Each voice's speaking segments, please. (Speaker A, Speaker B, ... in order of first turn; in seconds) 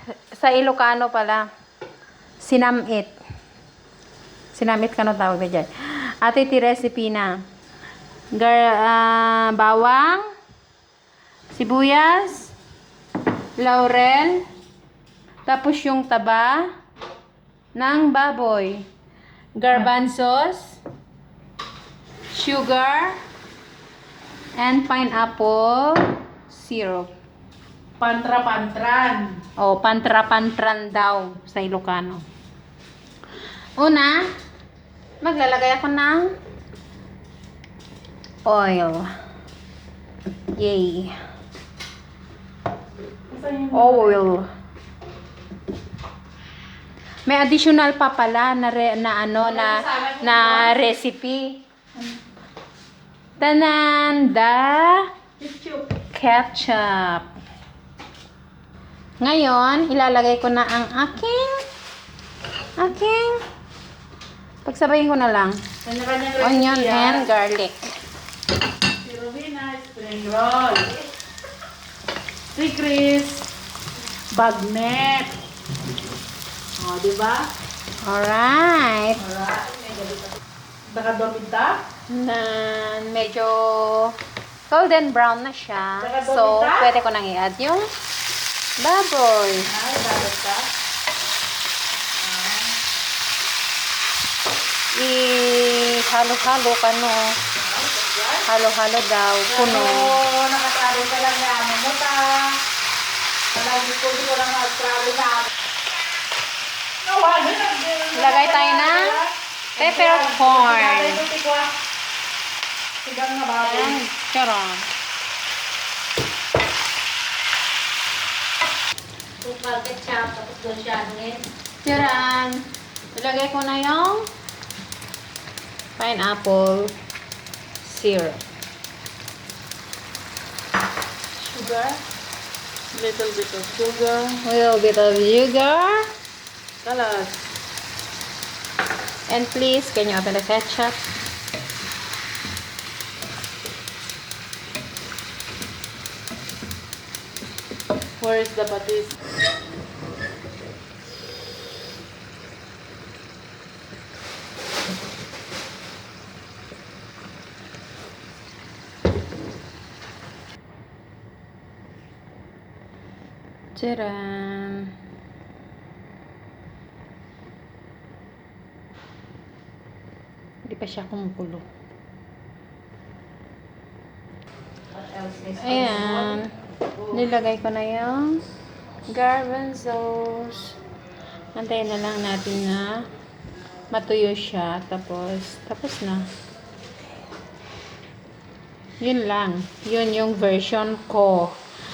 Speaker A: 0.3-1.4, 2.4-3.1, 4.5-7.3, 8.3-10.2, 11.5-12.5, 13.6-14.4, 15.5-16.6, 17.8-18.9, 19.6-20.8, 22.3-23.2, 24.6-27.1, 29.6-32.2, 33.8-34.2, 35.2-36.3, 38.5-39.1, 40.5-41.1, 43.7-44.5, 47.3-51.6, 53.4-55.1, 56.1-57.3, 59.2-61.6, 62.8-63.4, 64.7-65.6, 66.4-67.8, 78.0-79.2, 82.1-84.2, 84.7-87.9, 88.8-89.7, 94.9-97.4, 98.5-100.1, 108.1-109.2, 109.8-111.3, 113.6-114.9, 121.8-124.3, 126.0-126.9, 127.8-128.4, 134.4-136.1, 139.3-141.1, 163.8-164.9, 170.7-171.6, 175.6-176.5, 177.1-178.4, 179.1-180.8, 181.6-183.1, 183.9-186.3, 189.0-191.6
Speaker B: 28.0-29.4, 43.3-44.2, 49.4-50.8, 55.4-55.9, 65.8-67.3, 69.0-71.0, 72.5-73.5, 74.3-75.4, 76.8-77.5, 79.2-81.8, 86.0-86.9, 89.6-90.7, 92.2-92.8, 97.6-98.5, 99.5-102.6, 103.5-105.5, 107.0-111.7, 113.0-114.0, 131.4-132.0, 132.9-134.4, 136.8-137.5, 148.2-149.2, 174.9-176.4
Speaker C: 119.4-121.4